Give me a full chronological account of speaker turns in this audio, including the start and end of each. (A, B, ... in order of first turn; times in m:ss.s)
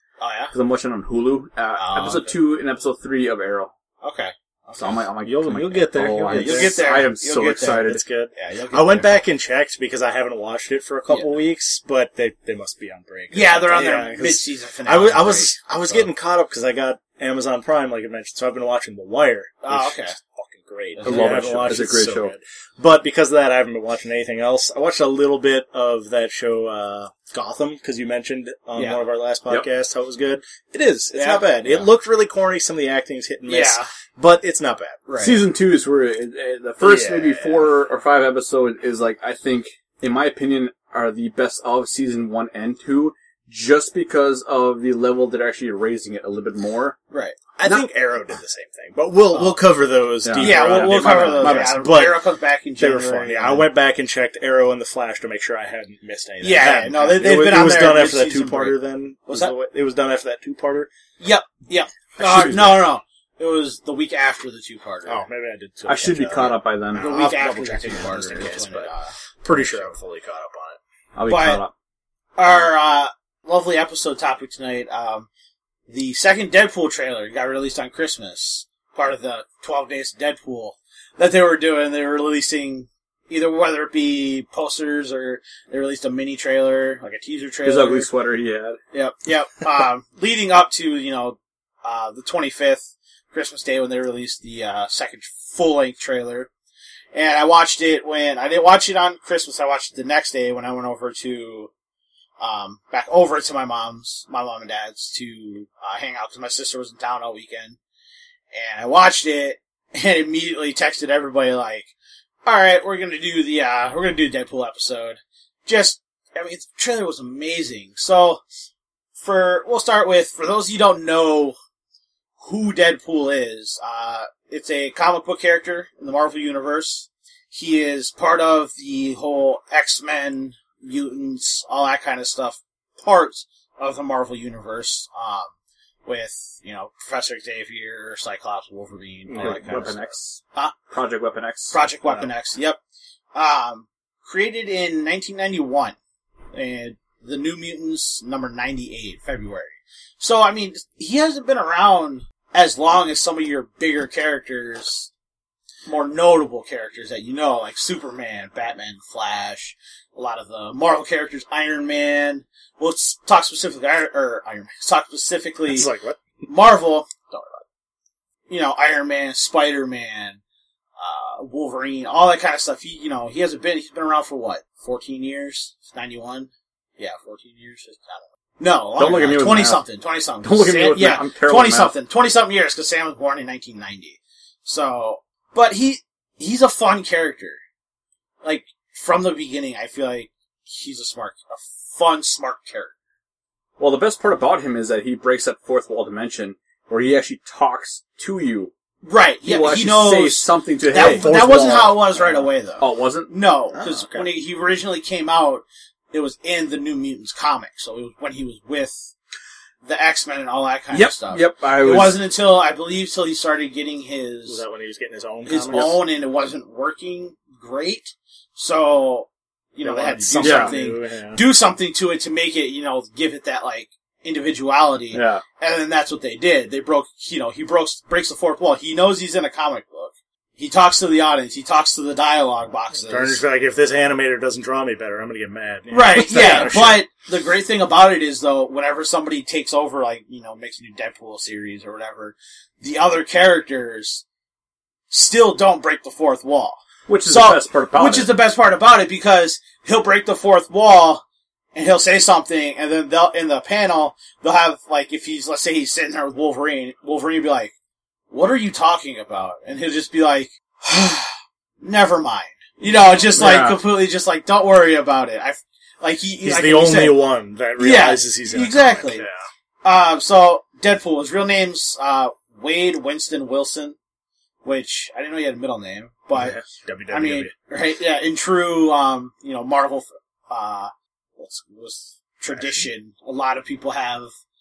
0:00.2-0:00.5 A
0:00.5-0:03.7 B
0:01.8-0:02.4 A
0:04.0-0:05.0 A
0:04.8-0:08.0 B
0:05.2-0:06.9 C
0:06.3-0:09.2 A
0:07.7-0:35.0 C
0:13.3-0:16.1 A
0:19.6-0:20.2 A
0:21.0-0:21.8 A
0:21.0-0:22.3 B
0:31.1-0:31.5 A
0:33.5-0:33.9 A
0:35.1-0:35.4 A
0:35.2-0:47.0 B
0:36.8-0:37.7 C
0:47.1-0:47.4 A
0:47.6-0:52.2 C
0:49.3-0:49.6 A
0:50.2-0:51.7 B
0:50.4-0:53.7 A
0:52.8-1:00.9 C
0:56.4-0:58.8 A
0:59.3-0:59.5 A
1:01.2-1:05.3 A
1:02.2-1:02.8 B
1:05.0-1:08.9 C
1:05.8-1:07.1 B
1:06.9-1:09.9 A
1:09.4-1:10.8 C
1:11.1-1:11.7 B
1:11.3-1:11.6 A
1:12.4-1:15.3 A
1:15.9-1:28.1 A
1:27.6-1:28.8 B
1:28.9-1:36.5 A
1:37.1-1:41.7 A
1:42.4-1:47.8 A
1:48.5-1:51.9 A
1:52.4-1:58.4 A
1:59.2-2:01.6 A
2:02.4-2:15.5 A
2:16.0-2:20.8 A
2:19.3-2:19.9 C
2:19.4-2:21.8 B
2:21.7-2:22.8 A
2:23.3-2:26.0 A
2:26.5-2:35.1 A
2:35.8-2:45.9 A
2:45.7-2:46.2 C
2:46.4-2:47.6 A
2:48.5-2:50.4 A
2:51.0-3:07.6 A
2:59.0-2:59.8 B
3:00.4-3:01.9 B
3:08.4-3:12.9 A
3:13.8-3:18.7 B
3:19.0-3:29.1 A
3:19.4-3:21.4 B
3:20.9-3:22.4 C
3:22.8-3:23.3 B
3:23.7-3:24.3 C
3:29.8-3:34.6 A
3:30.9-3:32.2 B
3:34.5-3:36.0 C
3:35.4-3:53.4 A
3:39.8-3:41.4 C
3:40.4-3:40.7 B
3:45.1-3:45.4 B
3:53.0-3:57.0 C
3:55.9-4:04.2 A
4:05.1-4:11.2 A
4:07.1-4:08.3 B
4:11.7-4:17.7 A
4:18.3-4:29.3 A
4:23.3-4:23.8 B
4:26.4-4:29.4 C
4:29.8-4:34.0 A
4:34.6-4:36.6 A
4:36.3-4:37.5 C
4:37.1-4:44.3 A
4:42.6-4:42.8 C